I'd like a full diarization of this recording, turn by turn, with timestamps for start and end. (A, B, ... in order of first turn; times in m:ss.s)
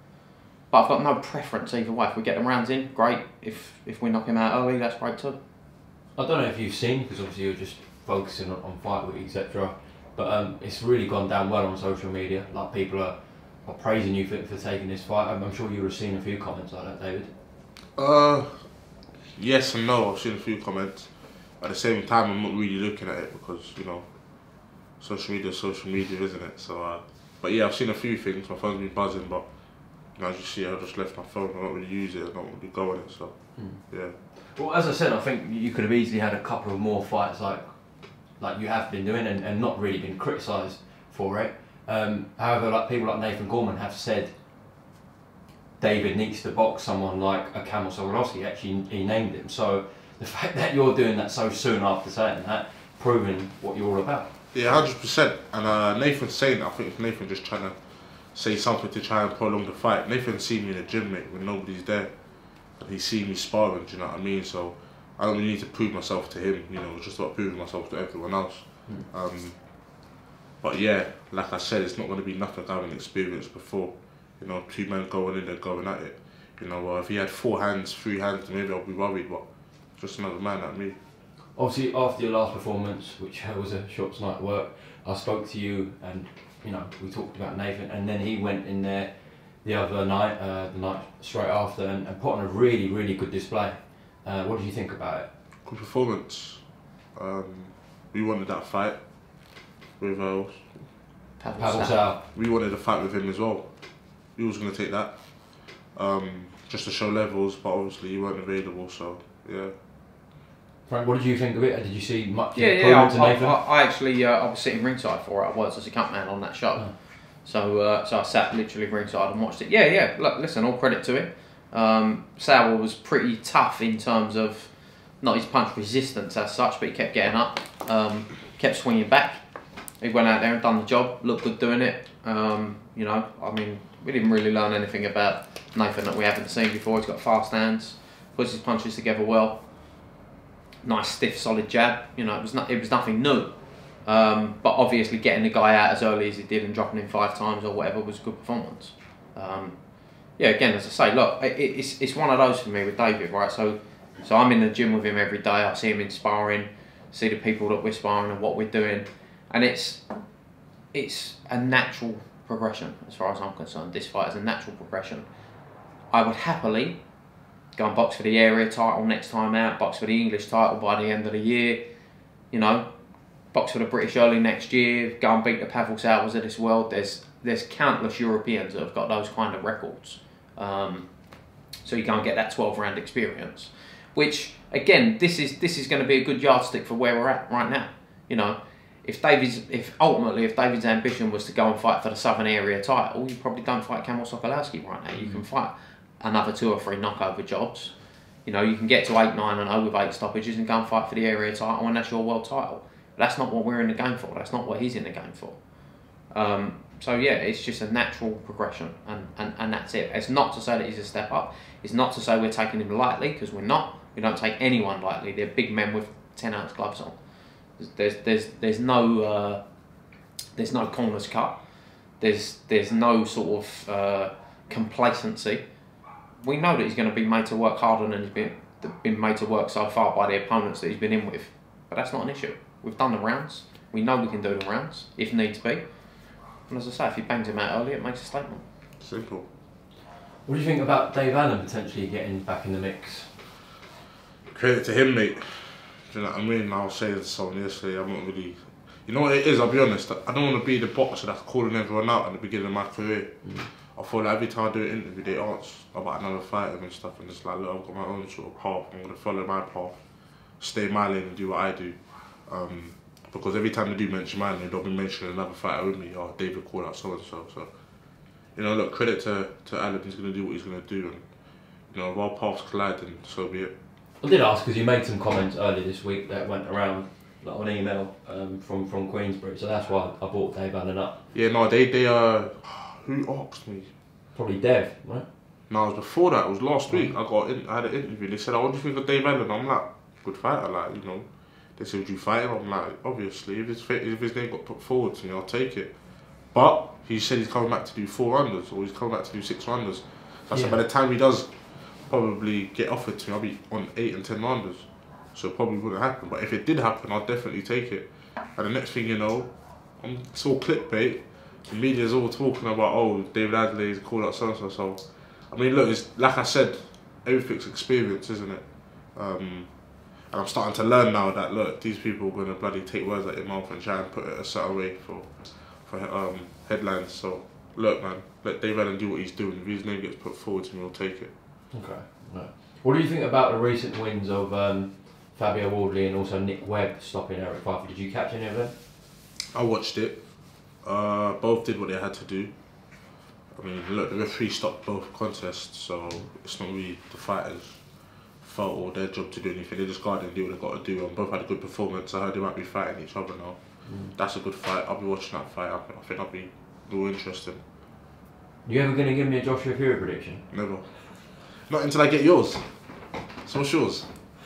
0:00.7-0:05.4 A
0:06.2-0:17.3 B
0:18.0-0:18.6 C
0:19.4-0:24.1 C
0:25.0-0:29.4 C
0:30.2-0:34.2 C
0:33.6-0:37.7 B
0:38.4-0:44.3 B
0:45.8-0:54.3 B
0:54.5-0:57.8 C
0:58.3-1:02.1 C
1:02.8-1:09.7 C
1:10.6-1:19.4 C
1:20.0-1:21.0 C
1:21.6-1:35.3 B
1:35.7-1:36.6 C
1:37.2-1:39.0 C
1:40.0-1:40.9 C
1:41.4-1:42.0 A
1:41.6-1:42.2 B
1:42.3-1:43.7 C
1:44.4-1:49.7 C
1:50.9-1:53.6 B
1:52.6-2:09.4 A
2:10.0-2:19.6 A
2:20.8-2:23.5 A
2:24.0-2:29.8 A
2:30.4-2:40.0 A
2:40.9-2:45.2 A
2:46.1-2:47.0 A
2:47.8-2:51.8 A
2:52.5-2:52.8 A
2:53.5-3:01.1 A
3:01.8-3:17.9 A
3:15.2-3:15.4 B
3:18.5-3:25.6 A
3:26.3-3:37.2 A
3:37.8-3:39.6 A
3:40.6-3:41.6 A
3:42.2-3:45.6 A
3:46.4-3:55.8 A
3:56.7-3:58.6 A
3:59.0-3:59.5 C
4:00.5-4:03.4 B
4:04.5-4:20.0 C
4:20.6-4:27.7 C
4:28.6-4:31.2 C
4:31.9-4:33.7 C
4:34.2-4:41.2 B
4:41.3-4:43.9 C
4:44.4-4:45.3 B
4:45.7-4:55.9 C
4:56.5-5:19.7 C
5:00.5-5:00.8 B
5:20.3-5:31.3 C
5:31.7-5:38.7 B
5:39.5-5:40.2 C
5:40.8-5:42.5 C
5:43.6-5:47.8 C
5:48.4-5:53.6 C
5:53.9-5:54.1 B
5:54.2-5:57.6 C
5:58.6-6:00.5 B
6:00.5-6:00.9 C
6:01.7-6:02.7 C
6:03.4-6:04.1 C